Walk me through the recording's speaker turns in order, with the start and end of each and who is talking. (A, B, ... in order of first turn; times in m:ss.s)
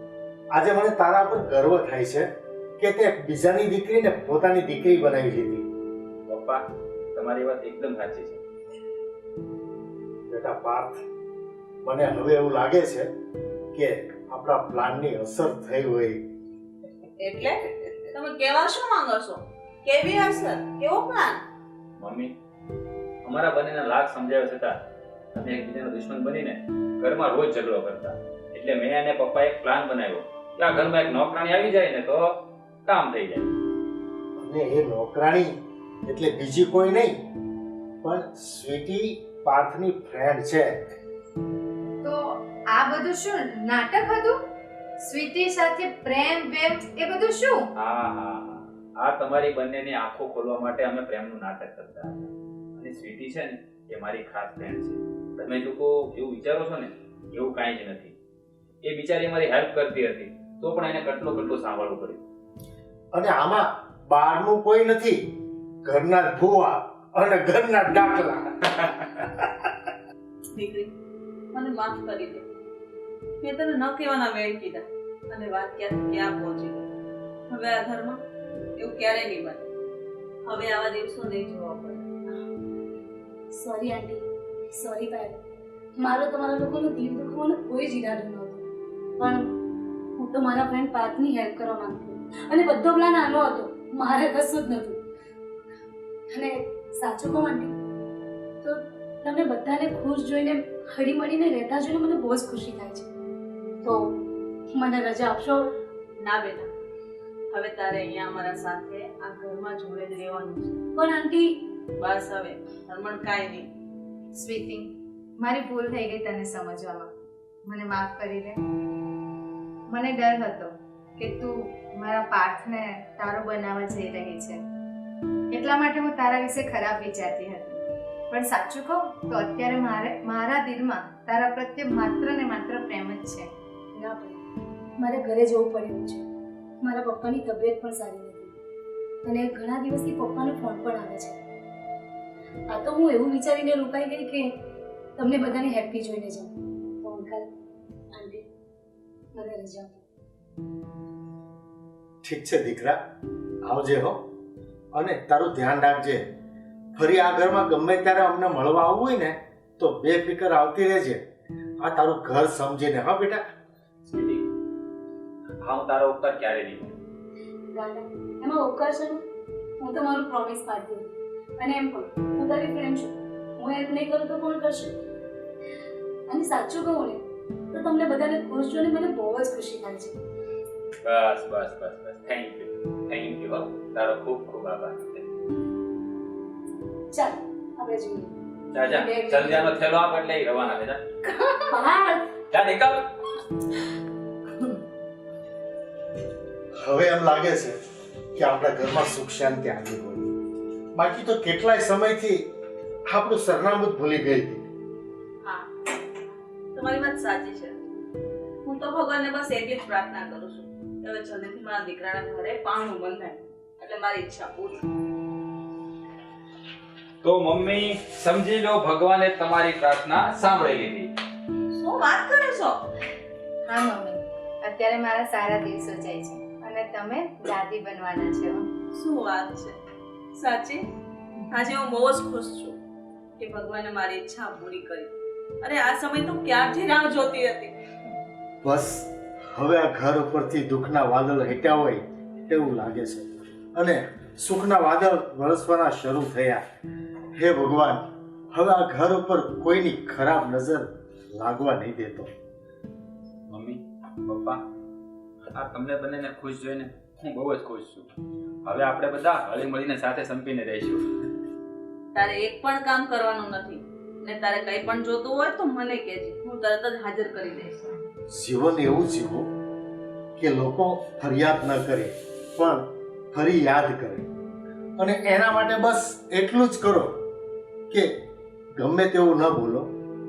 0:00.5-0:02.3 A
0:02.8-0:05.6 A
0:06.3-0:06.6 B
0:07.1-0:08.4 B
0:10.3-0:11.0 A
0:11.8-0:13.1 A
0:13.7-0:16.2 A
0:17.2-0:21.4 C
0:22.0-0:22.3 B
0:23.2-0:32.3 B
0:32.9-0:33.5 B
0:34.4-0:35.5 A
0:36.1-0:37.2 A
0:38.0-0:40.9 A
0:42.0-0:44.4 D
0:45.0-0:47.7 D
0:47.8-0:58.2 B
0:58.8-1:02.2 B
1:03.1-1:05.3 A
1:05.8-1:09.7 A
1:10.5-1:10.9 C
1:11.5-1:12.4 C
1:13.4-1:16.9 C
1:17.5-1:18.2 C
1:18.8-1:19.7 C
1:20.5-1:22.1 C
1:23.5-1:25.4 E
1:26.0-1:28.6 E
1:29.2-1:29.4 E
1:30.2-1:35.0 E
1:36.3-1:37.7 E
1:38.6-1:43.1 E
1:44.7-1:45.7 E
1:46.2-1:46.7 C
1:47.5-1:50.8 C
1:51.0-1:51.5 E
1:52.0-1:53.7 C
1:54.4-1:57.1 D
1:57.7-1:58.6 D
1:59.9-2:04.6 D
2:05.5-2:13.5 D
2:14.0-2:14.4 E
2:15.0-2:16.2 E
2:16.8-2:18.5 E
2:19.2-2:21.4 E
2:22.7-2:24.5 E
2:25.2-2:27.5 E
2:28.1-2:28.4 E
2:29.3-2:30.0 E
2:32.2-2:33.0 A
2:33.6-2:34.3 A
2:34.9-2:36.3 A
2:37.0-2:41.2 A
2:41.8-2:43.4 A
2:44.1-2:44.5 B
2:45.6-2:47.0 B
2:47.7-2:49.2 E
2:49.8-2:54.9 E
2:56.3-3:00.2 E
3:01.0-3:05.3 B
3:07.1-3:09.7 E
3:08.7-3:11.0 B
3:11.2-3:12.3 E
3:12.5-3:13.1 B
3:16.8-3:17.8 A
3:18.3-3:20.3 A
3:21.0-3:22.5 A
3:23.1-3:24.6 A
3:26.8-3:27.8 C
3:28.6-3:34.9 C
3:37.2-3:41.1 B
3:41.7-3:42.8 C
3:43.7-3:48.7 D
3:48.9-3:49.8 C
3:50.4-3:50.9 C
3:51.5-3:52.8 C
3:53.4-3:57.8 C
3:58.6-4:06.6 A
4:07.4-4:12.3 A
4:13.5-4:14.6 B
4:15.5-4:18.1 B
4:18.6-4:21.0 B
4:22.2-4:27.9 C
4:28.3-4:29.5 A
4:30.4-4:34.3 A
4:35.0-4:37.2 A
4:38.8-4:39.9 A